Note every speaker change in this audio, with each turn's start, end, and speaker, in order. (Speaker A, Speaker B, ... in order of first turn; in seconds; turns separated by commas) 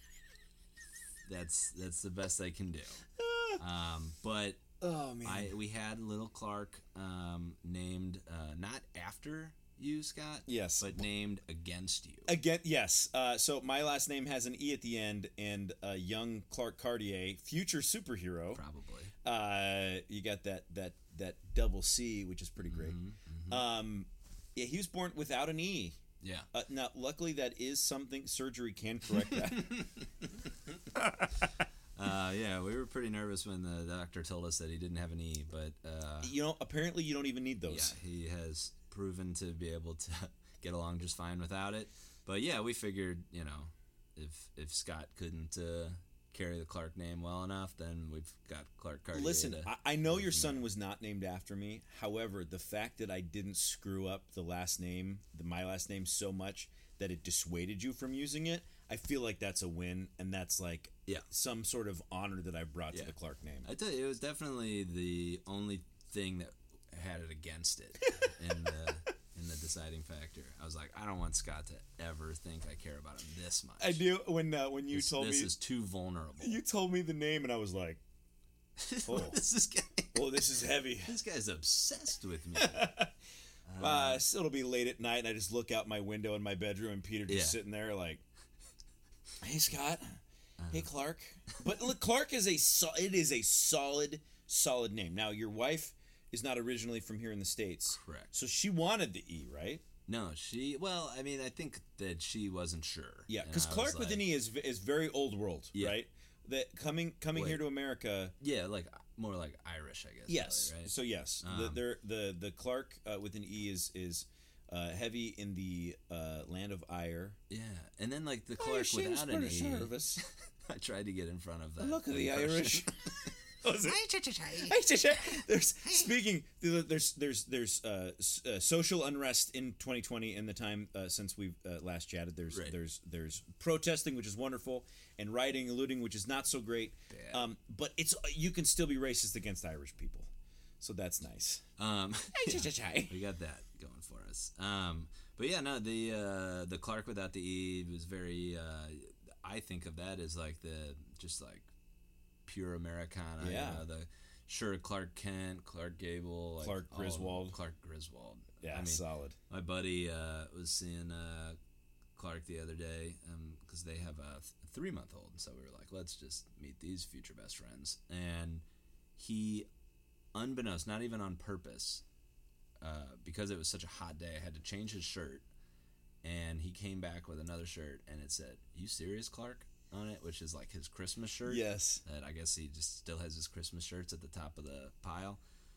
Speaker A: 1.2-3.1, Speaker B: 3.2-3.6, Speaker A: 3.6-4.7, Speaker B: 4.8-5.6, Speaker A: 5.2-12.3, Speaker B: 10.5-11.1, Speaker B: 12.3-18.6, Speaker A: 18.5-19.1, Speaker B: 19.2-23.0, Speaker A: 22.6-23.6, Speaker B: 23.5-26.0, Speaker A: 26.2-26.5, Speaker B: 26.5-29.9, Speaker A: 29.4-30.5, Speaker B: 30.9-31.4, Speaker A: 32.0-36.4, Speaker B: 36.2-38.0, Speaker A: 37.7-50.6, Speaker B: 49.1-63.7, Speaker A: 62.9-74.0, Speaker B: 73.8-75.5, Speaker A: 74.9-76.6, Speaker B: 76.4-78.0, Speaker A: 78.8-80.4, Speaker B: 79.0-79.4, Speaker B: 80.1-81.2, Speaker A: 81.0-82.9, Speaker B: 82.6-83.1, Speaker A: 83.7-84.2, Speaker B: 83.8-88.2, Speaker A: 87.3-87.6, Speaker B: 89.4-99.8, Speaker A: 90.6-90.9, Speaker A: 97.9-98.3, Speaker A: 100.1-104.3, Speaker B: 103.3-108.3, Speaker A: 107.3-107.6, Speaker A: 108.4-111.8, Speaker B: 110.3-117.4, Speaker A: 117.5-124.8, Speaker B: 118.6-120.2, Speaker B: 121.8-141.7, Speaker A: 132.5-132.8, Speaker A: 137.1-137.4, Speaker A: 141.8-151.7, Speaker B: 142.3-143.2, Speaker A: 152.5-161.6, Speaker B: 153.4-153.9, Speaker B: 156.6-157.6, Speaker B: 158.6-159.4, Speaker A: 162.2-168.6, Speaker A: 169.2-169.7, Speaker A: 170.3-172.0, Speaker A: 172.8-175.4, Speaker A: 176.2-185.4, Speaker B: 181.4-182.0